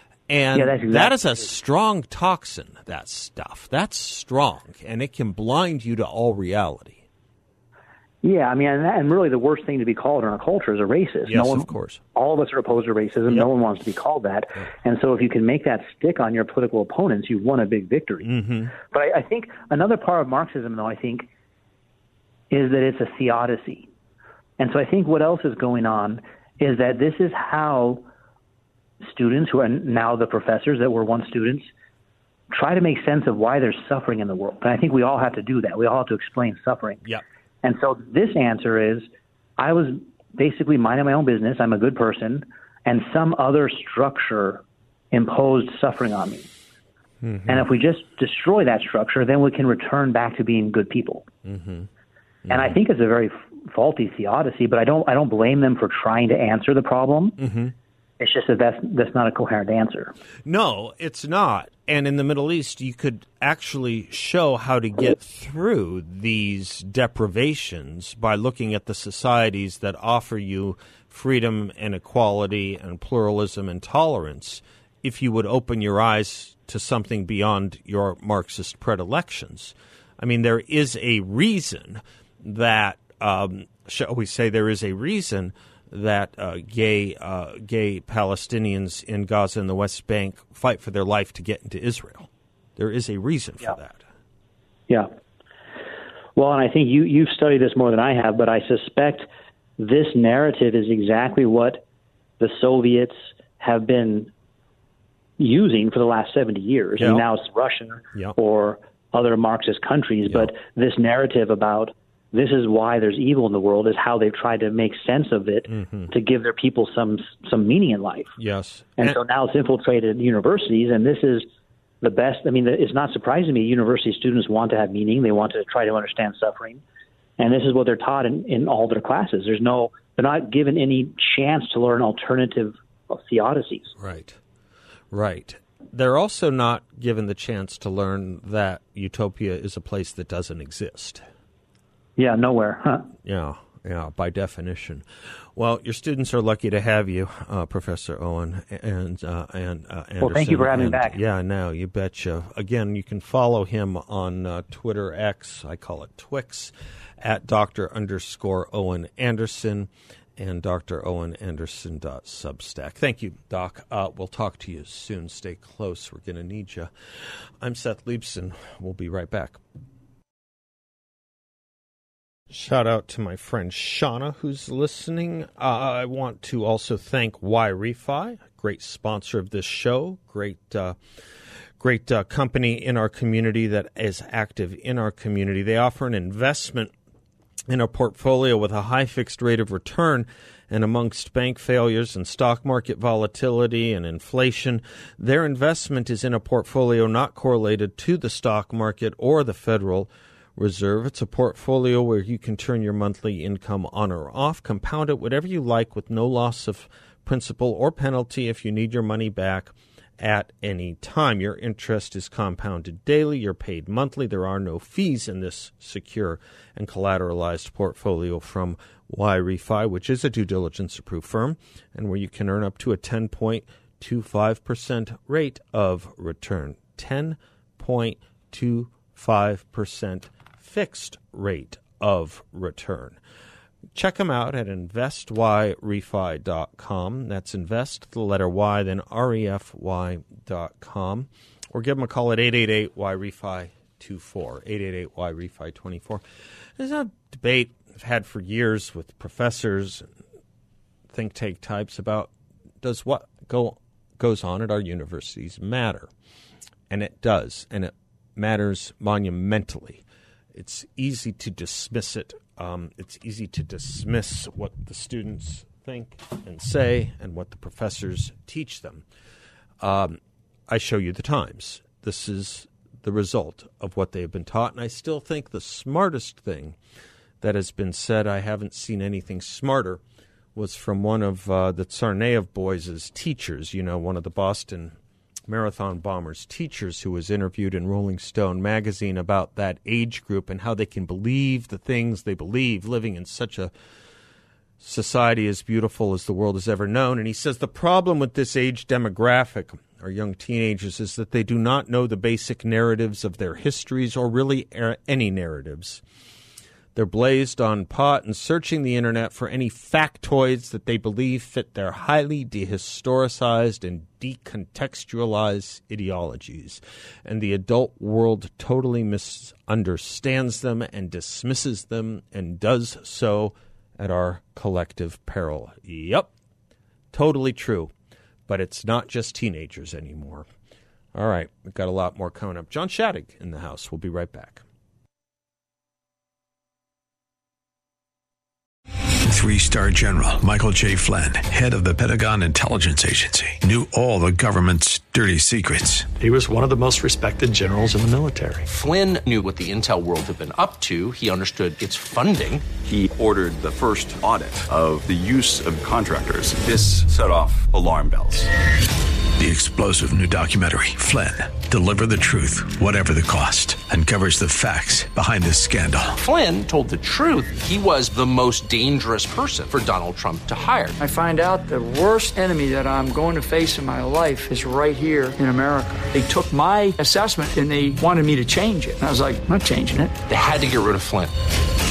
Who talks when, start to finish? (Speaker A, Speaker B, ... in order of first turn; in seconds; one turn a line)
Speaker A: 0.3-7.0
Speaker B: 0.5-1.4
Speaker B: 8.2-21.3
Speaker A: 11.2-12.0
Speaker A: 18.2-18.7
Speaker B: 22.5-23.9
Speaker B: 24.6-28.1
Speaker B: 29.0-31.7
Speaker B: 32.5-37.0
Speaker B: 37.6-46.5
Speaker A: 47.2-47.6
Speaker B: 47.5-51.2
Speaker A: 51.4-51.9
Speaker A: 52.5-52.7
Speaker B: 52.5-57.4
Speaker A: 57.4-57.7
Speaker B: 58.2-60.1
Speaker A: 60.4-94.0
Speaker B: 96.3-99.3
Speaker B: 99.8-101.8
Speaker B: 102.4-104.3
Speaker B: 105.4-118.3
Speaker A: 107.0-107.2
Speaker A: 115.7-116.1
Speaker A: 118.4-119.2
Speaker B: 119.0-121.5
Speaker B: 122.0-126.8
Speaker B: 127.4-133.9
Speaker A: 134.0-134.4
Speaker A: 135.1-141.2
Speaker B: 142.2-143.1
Speaker A: 143.2-166.9
Speaker B: 150.2-151.2
Speaker A: 167.6-169.6
Speaker A: 172.5-181.0
Speaker A: 181.8-186.9
Speaker A: 187.7-233.2
Speaker A: 233.9-246.2
Speaker A: 246.8-250.1
Speaker A: 251.1-256.1
Speaker A: 256.9-260.0
Speaker A: 260.5-269.0
Speaker A: 269.8-276.8
Speaker A: 277.4-280.0
Speaker A: 280.5-284.9
Speaker A: 285.5-293.7
Speaker A: 294.8-306.0
Speaker A: 306.9-326.3
Speaker A: 327.1-327.9
Speaker A: 328.5-330.5
Speaker A: 331.1-334.6
Speaker C: 339.2-346.1
Speaker D: 346.1-348.6
Speaker E: 348.6-352.6
Speaker F: 352.8-358.5
Speaker C: 359.4-366.1
Speaker E: 366.2-370.9
Speaker G: 371.0-380.1
Speaker E: 380.2-381.3